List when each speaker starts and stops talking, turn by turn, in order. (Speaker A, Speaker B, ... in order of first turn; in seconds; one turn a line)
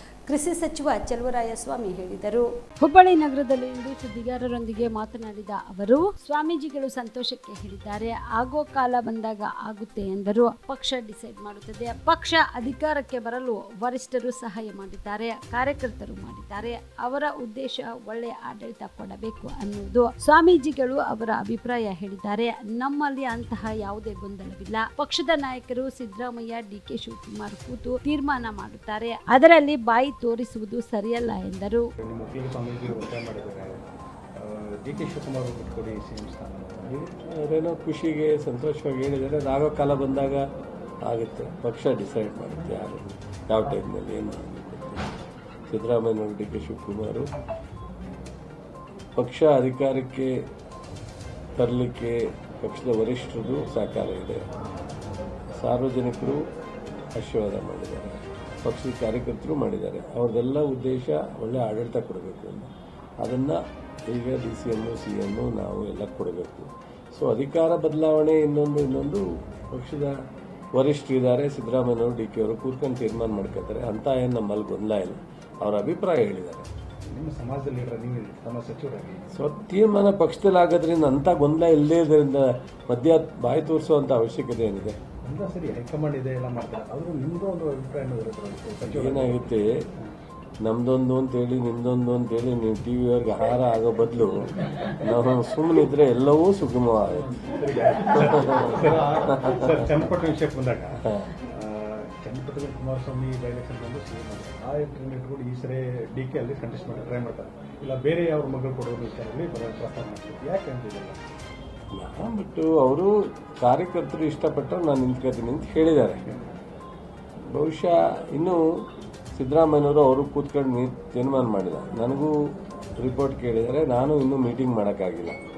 Speaker A: 0.3-31.8
Speaker B: 32.0-33.8
Speaker B: 34.4-36.9
Speaker C: 36.9-40.4
Speaker C: 41.0-45.1
Speaker C: 45.7-47.3
Speaker C: 49.2-50.3
Speaker C: 51.6-54.5
Speaker C: 55.6-56.4
Speaker C: 57.1-70.1
Speaker C: 70.8-76.7
Speaker B: 77.1-79.3
Speaker C: 79.3-85.0
Speaker B: 85.2-90.1
Speaker C: 88.8-89.8
Speaker C: 90.6-97.3
Speaker B: 97.1-111.2
Speaker C: 98.3-99.5
Speaker C: 111.9-116.2
Speaker C: 117.5-118.6
Speaker C: 119.3-122.3
Speaker C: 123.0-125.4